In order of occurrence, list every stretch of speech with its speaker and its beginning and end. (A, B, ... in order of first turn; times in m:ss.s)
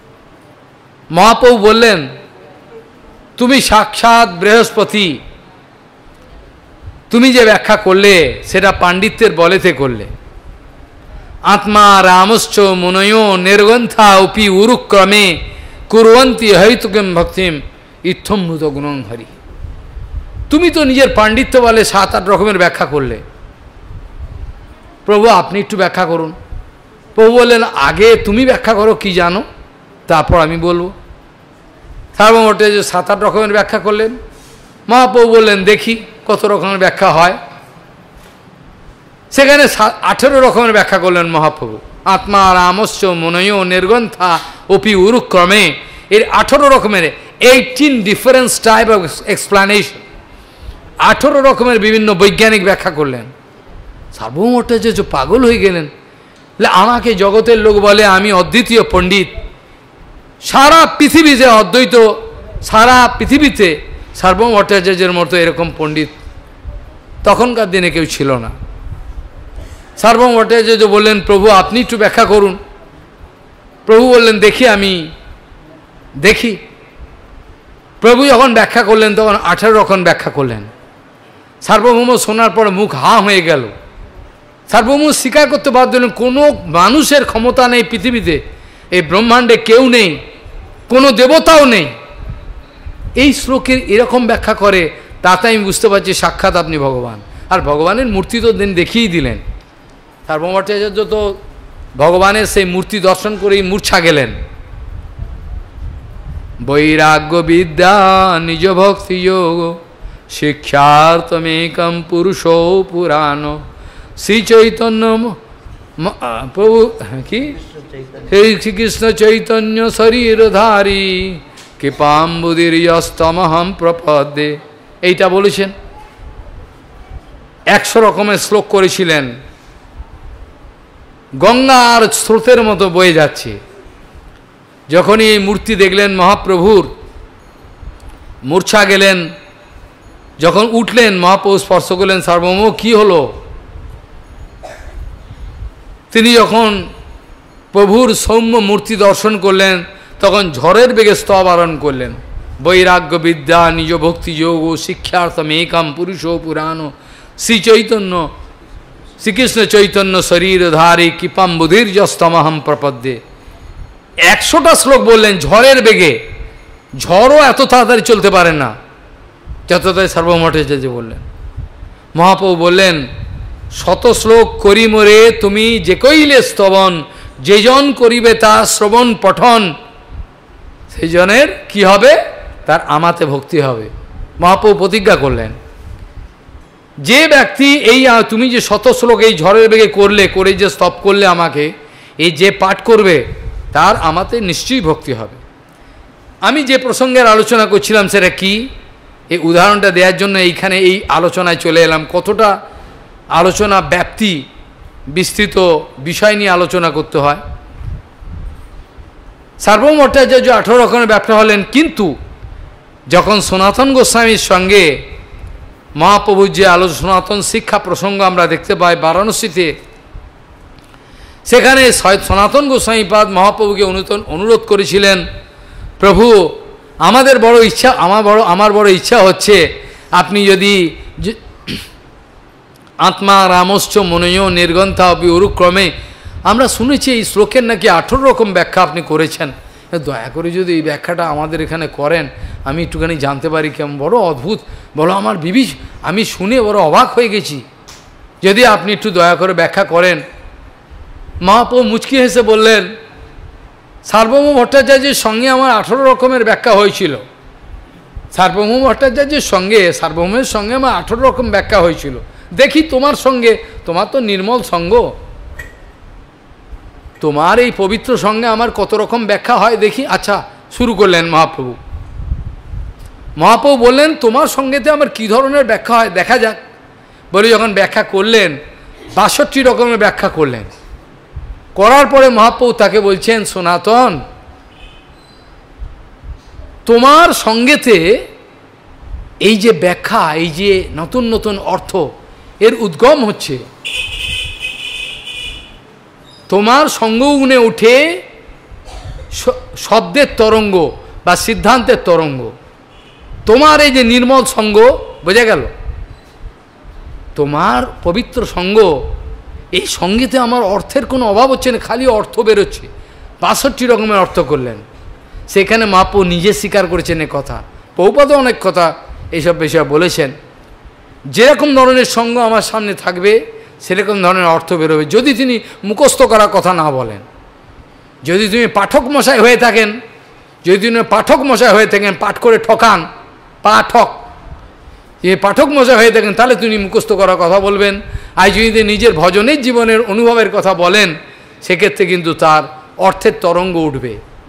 0:01.1-0:02.1 A
0:03.4-0:05.2 A
0:07.1-0:10.1 A
0:11.5-0:19.3 A
0:20.5-0:23.2 A
0:25.1-0:26.4 A
0:27.2-0:29.4 A
0:30.1-0:30.9 A
0:32.2-0:34.2 A
0:34.9-0:37.4 A
0:39.3-0:50.0 A
0:51.0-0:53.3 A
0:54.1-0:55.9 A
0:56.6-0:59.3 A
1:00.4-1:06.2 A
1:07.2-1:08.5 A
1:10.0-1:12.6 A
1:13.9-1:15.1 A
1:16.2-1:16.6 A
1:18.0-1:20.7 A
1:21.6-1:23.7 A
1:24.7-1:28.4 A
1:28.9-1:30.2 A
1:30.9-1:31.9 A
1:33.2-1:39.4 A
1:40.3-1:41.4 A
1:42.0-1:44.4 A
1:46.6-1:53.6 A
1:54.2-1:55.4 A
1:56.0-1:57.6 A
1:58.2-2:05.7 A
2:07.7-2:09.4 A
2:11.4-2:13.6 A
2:14.9-2:16.9 A
2:18.5-2:19.3 A
2:20.4-2:23.3 A
2:26.1-2:26.9 A
2:27.7-2:38.3 A
2:39.2-2:43.2 A
2:44.3-2:46.2 A
2:47.0-2:48.8 A
2:49.7-2:51.2 A
2:52.2-2:53.1 A
2:53.7-2:59.7 A
3:00.9-3:05.6 A
3:07.0-3:15.4 A
3:16.4-3:18.7 A
3:19.3-3:22.6 A
3:23.3-3:24.5 A
3:25.1-3:27.4 A
3:29.6-3:32.2 A
3:33.1-3:35.0 A
3:36.0-3:39.7 A
3:41.5-3:45.2 A
3:46.0-3:51.8 A
3:53.0-3:55.9 A
3:56.5-4:07.6 A
4:08.4-4:10.2 A
4:11.4-4:12.9 A
4:14.0-4:17.2 A
4:18.3-4:25.1 A
4:27.2-4:31.8 A
4:33.4-4:36.6 A
4:37.3-4:38.6 A
4:39.1-4:40.7 A
4:41.8-4:44.2 A
4:46.8-4:48.2 A
4:49.4-4:53.6 A
4:56.5-4:58.2 A
4:59.3-5:02.5 A
5:03.5-5:05.7 A
5:07.4-5:09.1 A
5:09.7-5:12.9 A
5:13.4-5:14.8 A
5:15.5-5:20.4 A
5:21.3-5:27.2 A
5:28.2-5:30.0 A
5:30.6-5:33.1 A
5:33.6-5:34.2 A
5:35.2-5:44.2 A